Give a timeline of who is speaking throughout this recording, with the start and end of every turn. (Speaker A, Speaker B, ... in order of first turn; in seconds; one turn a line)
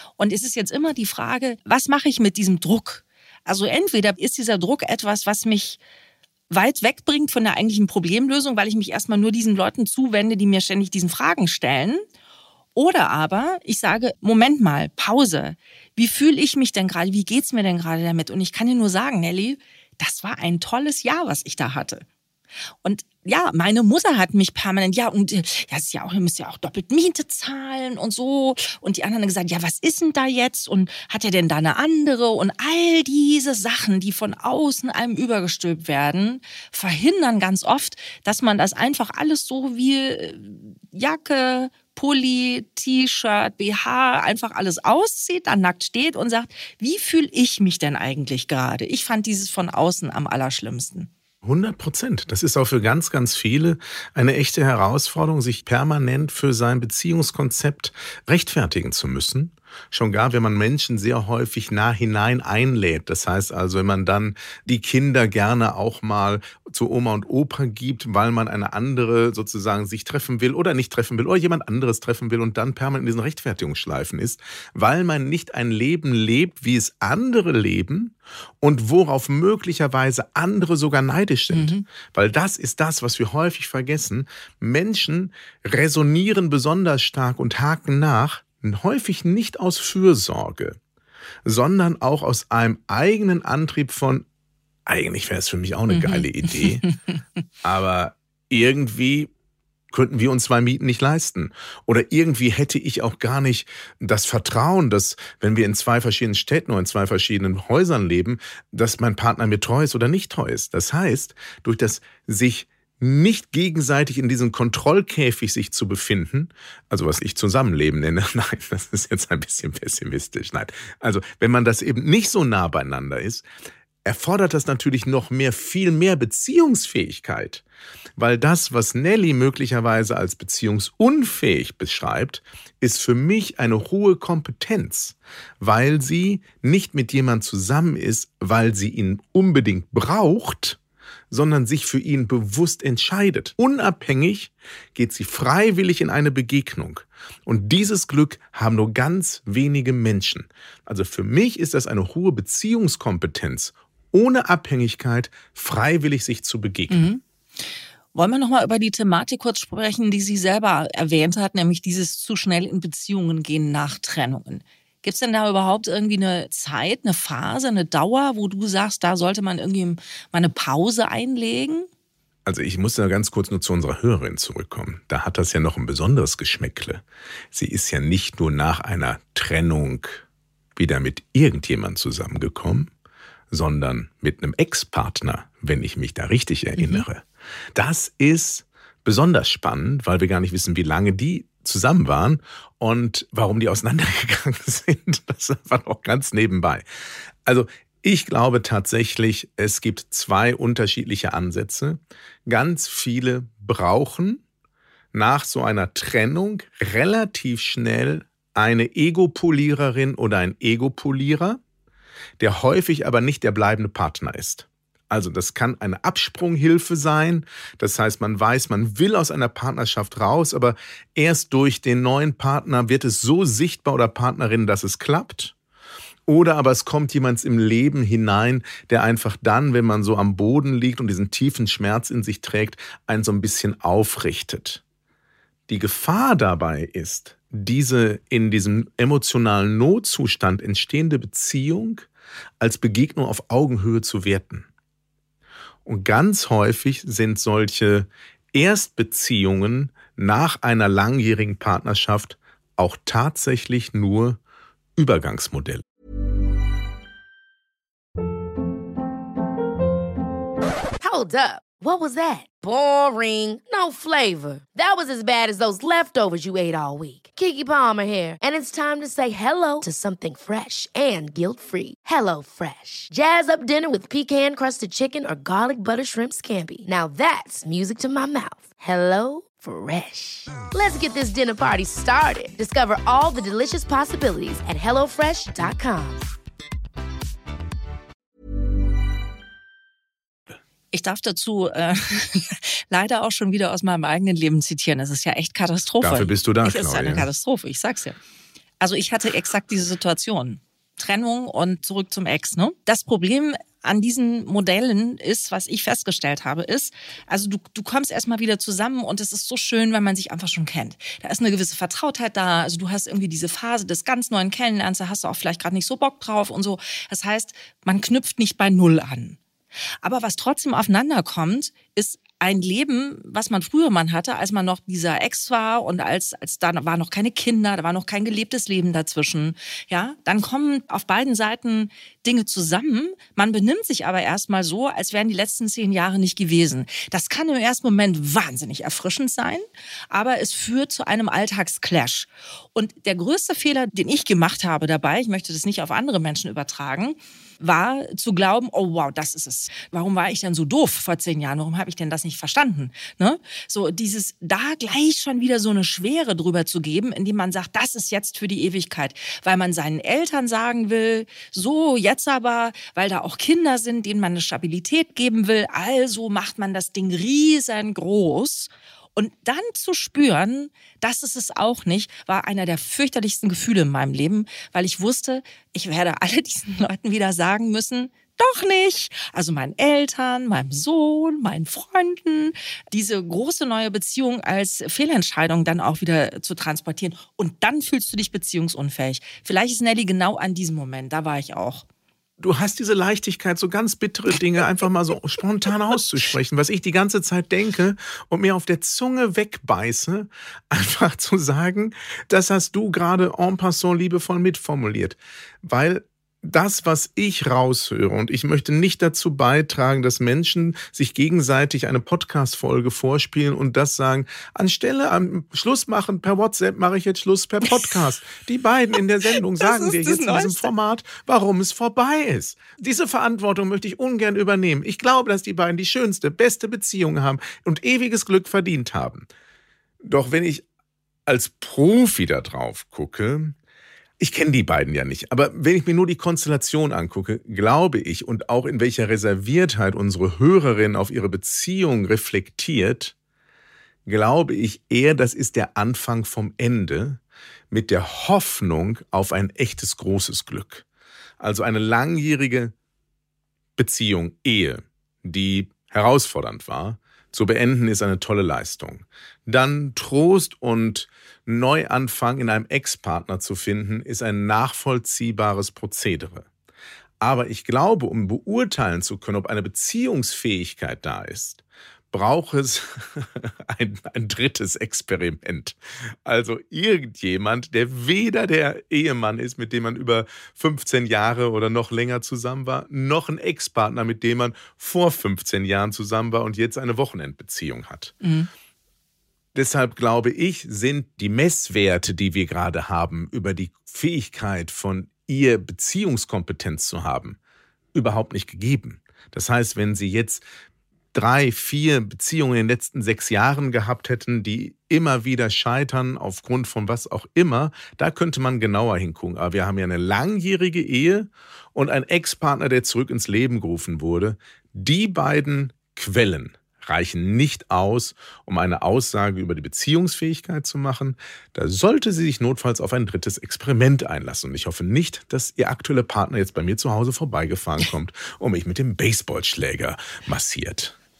Speaker A: 0.2-5.8
Speaker A: 6.5-12.0
Speaker A: 12.8-22.0
Speaker A: 22.8-51.1
Speaker B: 51.4-90.8
Speaker A: 81.5-81.8
Speaker B: 91.4-94.2
Speaker B: 94.8-96.8
Speaker A: 95.9-96.2
Speaker B: 97.6-99.3
Speaker B: 99.9-123.5
Speaker B: 124.0-127.6
Speaker B: 128.2-140.8
Speaker B: 141.3-157.1
Speaker A: 156.9-157.2
Speaker A: 158.1-171.9
Speaker B: 172.4-180.2
Speaker B: 180.8-182.9
Speaker B: 183.5-196.8
Speaker A: 186.8-187.0
Speaker B: 197.4-204.4
Speaker B: 205.1-211.6
Speaker B: 212.4-225.5
Speaker B: 226.2-234.8
Speaker B: 235.7-242.1
Speaker B: 242.6-244.7
Speaker B: 245.8-254.4
Speaker B: 254.9-255.8
Speaker C: 261.0-286.2
Speaker A: 290.9-298.2
Speaker B: 296.0-297.3
Speaker A: 298.8-319.4
Speaker A: 320.0-391.8
Speaker B: 392.4-429.3
Speaker A: 419.6-420.7
Speaker B: 430.0-430.6
Speaker B: 431.2-433.6
Speaker B: 434.2-443.1
Speaker B: 444.1-450.8
Speaker B: 451.4-452.7
Speaker B: 453.8-466.5
Speaker B: 467.2-488.1
Speaker A: 488.2-488.5
Speaker B: 489.5-497.4
Speaker B: 497.9-500.4
Speaker B: 501.1-530.9